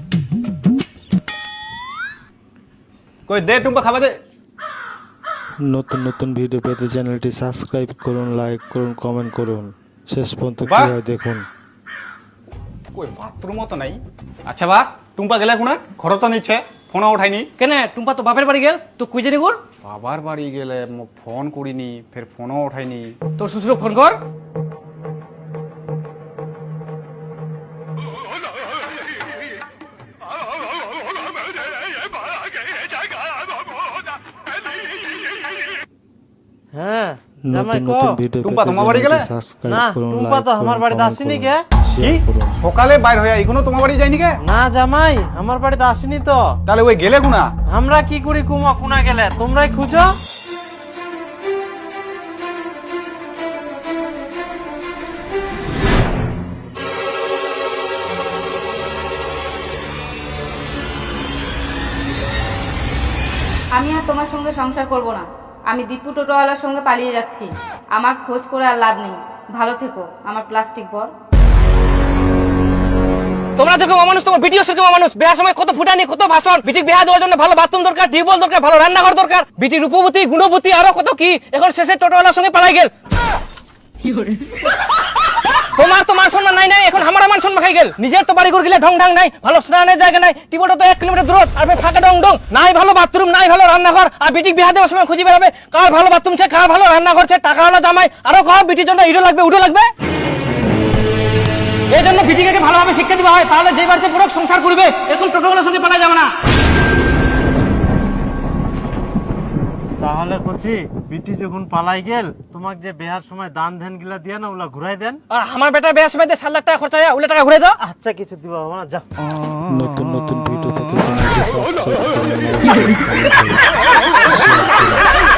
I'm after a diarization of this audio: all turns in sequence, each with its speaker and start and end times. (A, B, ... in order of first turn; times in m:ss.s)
0:03.3-0:04.2 A
0:05.6-0:11.5 B
0:10.6-0:10.9 A
0:12.9-0:17.5 A
0:17.6-0:19.6 C
0:19.8-0:23.2 A
0:23.4-0:24.2 C
0:36.7-0:38.2 D
0:37.5-0:42.6 B
0:38.4-0:39.3 A
0:39.7-0:41.6 D
0:42.0-0:44.4 A
0:44.4-0:46.5 D
0:46.7-0:47.5 A
0:47.7-0:50.1 D
1:03.8-1:11.1 E
1:13.6-1:22.9 C
1:25.7-1:39.9 C
1:41.9-1:46.3 C
1:50.0-1:55.2 D
1:55.3-1:57.8 C
1:57.8-1:59.0 D
1:59.7-2:05.1 B